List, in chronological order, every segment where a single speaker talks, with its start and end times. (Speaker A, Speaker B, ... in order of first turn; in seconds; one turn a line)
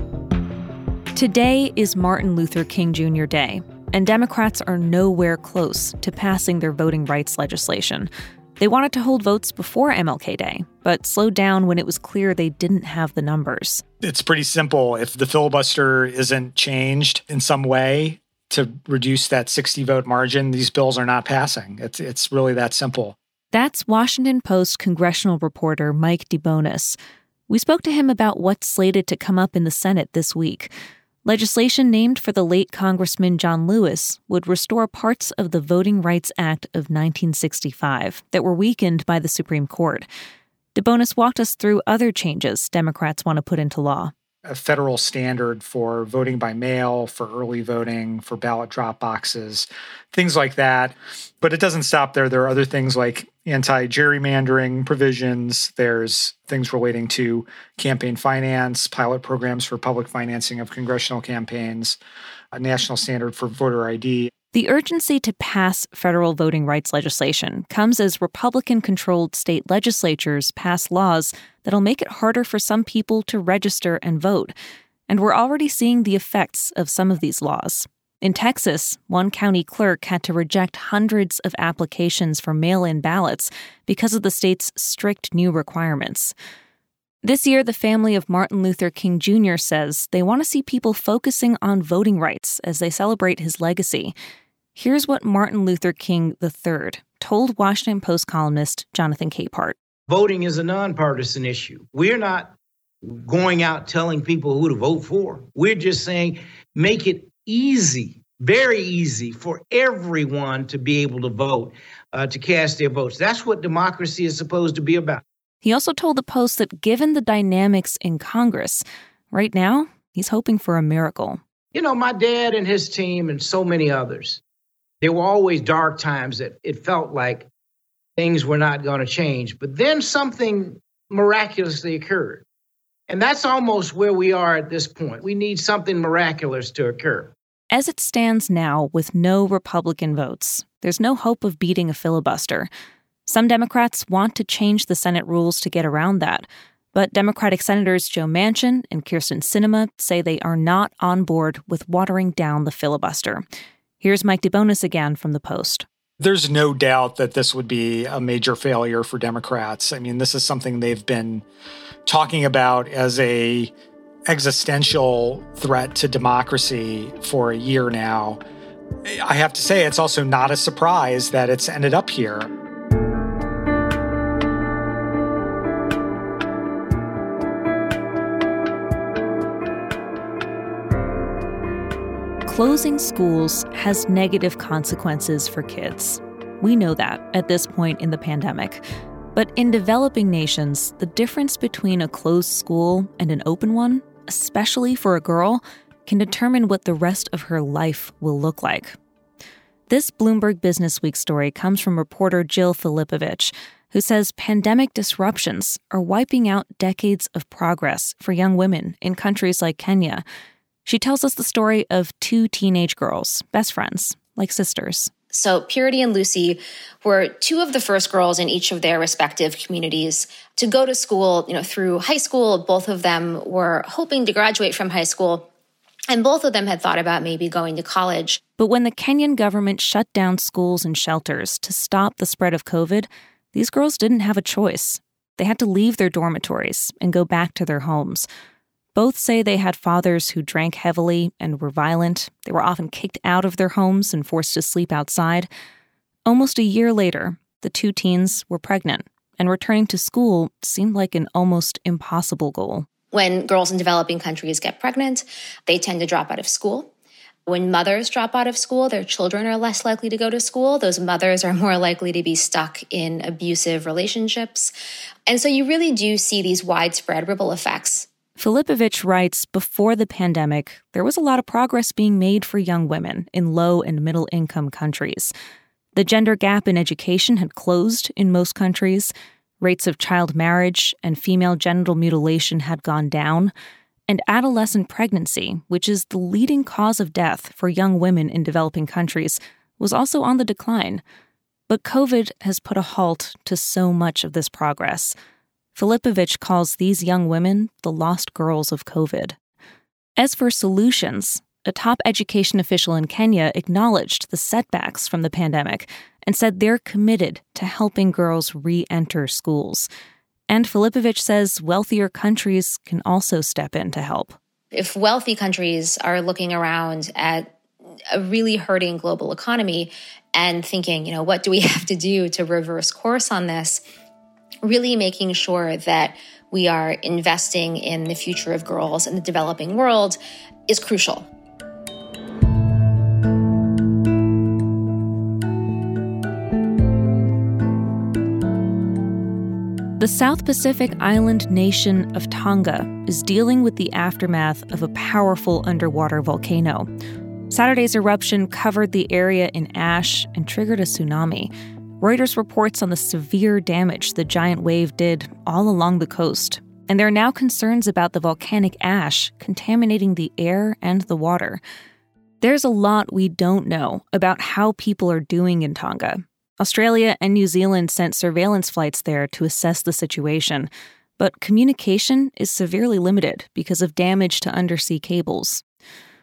Speaker A: 1.1-13.8
Speaker B: 14.0-23.2
Speaker A: 23.5-27.0
Speaker A: 27.5-30.7
Speaker A: 31.2-40.1
Speaker A: 40.8-44.1
Speaker B: 44.5-62.0
Speaker B: 62.5-64.3
Speaker A: 64.5-74.5
Speaker A: 75.1-86.3
Speaker A: 87.2-94.1
Speaker A: 94.8-99.8
Speaker C: 100.1-115.2
Speaker A: 115.6-121.4
Speaker C: 121.7-124.4
Speaker C: 125.0-127.5
Speaker C: 128.2-132.4
Speaker C: 133.1-137.3
Speaker A: 137.7-142.7
Speaker A: 143.3-153.4
Speaker A: 154.0-155.8
Speaker B: 156.2-161.4
Speaker B: 162.1-163.7
Speaker B: 164.3-168.4
Speaker B: 169.1-172.5
Speaker A: 182.5-188.8
Speaker A: 189.3-199.0
Speaker A: 199.9-210.2
Speaker A: 210.8-215.1
Speaker D: 215.3-225.5
Speaker D: 226.1-228.4
Speaker A: 228.6-238.3
Speaker A: 238.9-245.5
Speaker A: 246.3-252.9
Speaker D: 253.1-256.9
Speaker D: 257.5-264.7
Speaker D: 265.3-268.1
Speaker A: 268.4-275.3
Speaker A: 275.9-283.5
Speaker A: 284.1-291.0
Speaker A: 291.7-295.1
Speaker A: 295.8-299.4
Speaker A: 300.2-309.9
Speaker A: 310.5-314.4
Speaker D: 314.8-317.5
Speaker D: 318.1-323.8
Speaker D: 324.6-331.3
Speaker A: 340.0-346.9
Speaker A: 347.5-361.6
Speaker A: 362.4-375.6